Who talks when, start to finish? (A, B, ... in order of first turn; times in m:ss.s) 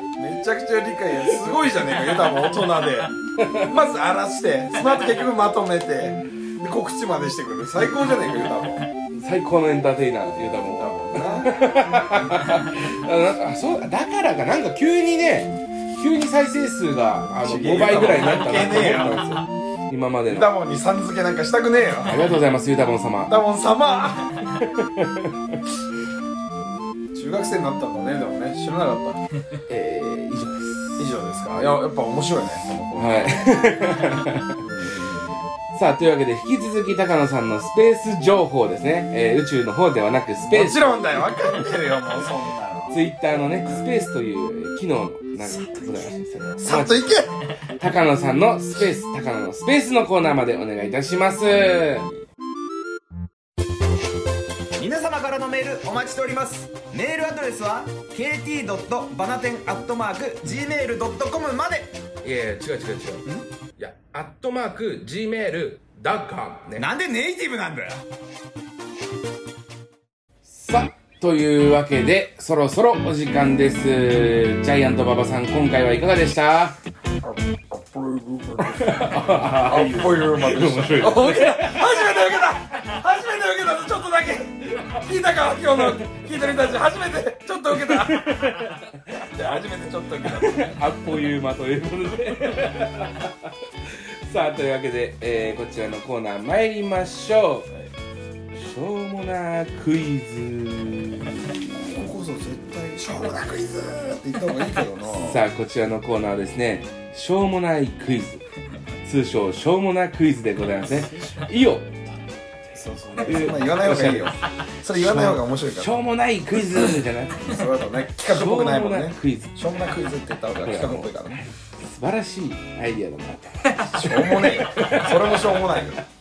0:00.2-0:08.8 A
0:01.2-0:01.9 B
0:03.4-0:03.7 B
0:09.1-0:20.5 B
0:10.4-0:11.6 A
0:17.4-0:19.2 A
0:20.3-0:22.2 A
0:22.0-0:23.3 B
0:23.3-0:24.4 A
0:24.5-0:25.6 B
0:27.1-0:29.2 A
0:29.7-0:31.1 B
0:31.0-0:33.6 A
0:33.0-0:34.6 B
0:34.6-0:35.4 A
0:35.7-0:41.7 B
0:40.4-0:43.0 A
0:42.9-0:47.1 B
0:46.6-0:47.3 A
0:47.8-0:52.1 B
0:54.8-1:02.0 C
1:02.2-1:06.9 B
1:06.8-1:08.0 C
1:10.5-1:16.8 B
1:17.2-1:28.5 A
1:18.6-1:22.5 B
1:24.7-1:25.1 B
1:25.7-1:26.1 B
1:27.7-1:28.9 B
1:29.1-1:30.8 A
1:30.2-1:37.7 B
1:38.5-1:41.8 B
1:41.8-1:45.4 A
1:45.1-1:48.4 B
1:49.0-1:54.4 B
1:51.1-1:51.4 A
1:52.8-1:56.0 A
1:55.0-1:57.6 B
1:57.4-2:01.4 A
1:58.3-1:59.6 B
2:00.6-2:05.8 B
2:03.8-2:06.0 A